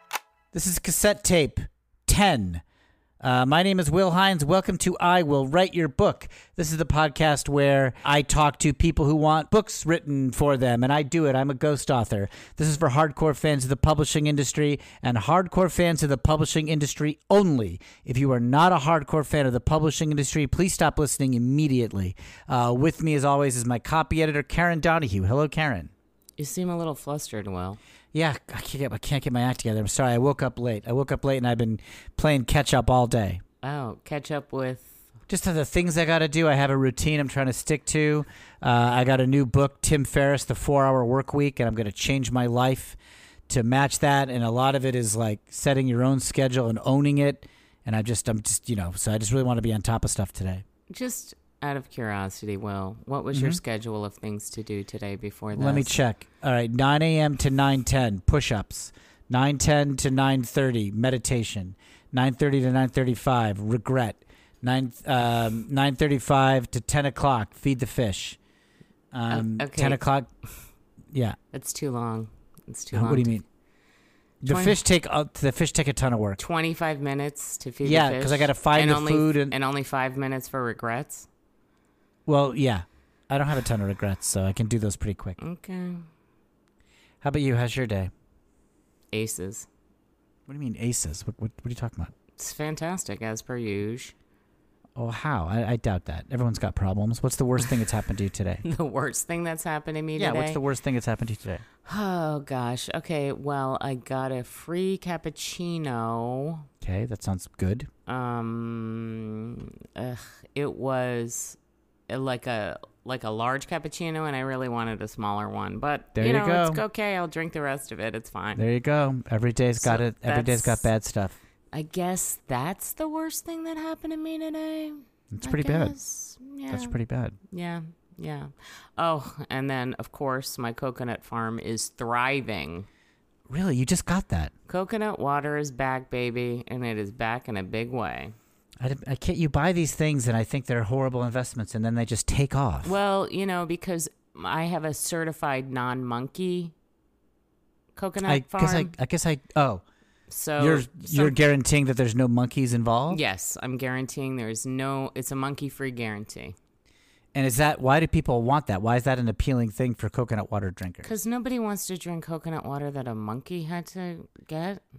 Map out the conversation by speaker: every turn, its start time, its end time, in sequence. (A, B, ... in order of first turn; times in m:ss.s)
0:00.5-0:02.6 A
0:03.2-0:25.9 A
0:26.4-0:27.8 B
0:28.1-0:33.4 A
0:33.6-0:35.0 B
0:35.3-0:43.0 A
0:43.5-0:50.6 A
0:50.9-0:56.0 B
0:53.3-0:53.6 A
0:55.6-1:08.4 A
1:09.1-1:10.3 A
1:09.3-1:10.0 B
1:11.1-1:11.4 A
1:11.5-1:13.4 B
1:12.9-1:13.4 A
1:14.4-1:16.4 A
1:14.5-1:14.8 B
1:16.4-1:21.3 B
1:17.8-1:19.6 A
1:22.3-1:25.4 A
1:25.4-1:26.0 B
1:27.2-1:28.1 A
1:29.1-1:29.7 B
1:30.5-1:32.1 A
1:32.4-1:34.1 B
1:35.0-1:38.6 A
1:38.6-1:40.6 B
1:40.2-1:41.6 A
1:41.9-1:46.7 B
1:46.8-1:47.9 A
1:48.1-1:51.6 B
1:52.1-1:58.6 B
1:56.2-1:56.8 A
1:58.6-2:01.4 A
1:59.8-2:00.8 B
2:01.7-2:07.0 B
2:05.3-2:05.9 A
2:06.7-2:07.4 A
2:07.5-2:12.9 B
2:13.5-2:14.5 A
2:14.7-2:18.3 B
2:18.8-2:22.9 A
2:22.8-2:26.7 B
2:28.0-2:28.9 B
2:28.2-2:29.8 A
2:30.3-2:31.5 B
2:30.6-2:33.2 A
2:33.1-2:36.6 B
2:37.3-2:41.2 A
2:41.0-2:44.8 B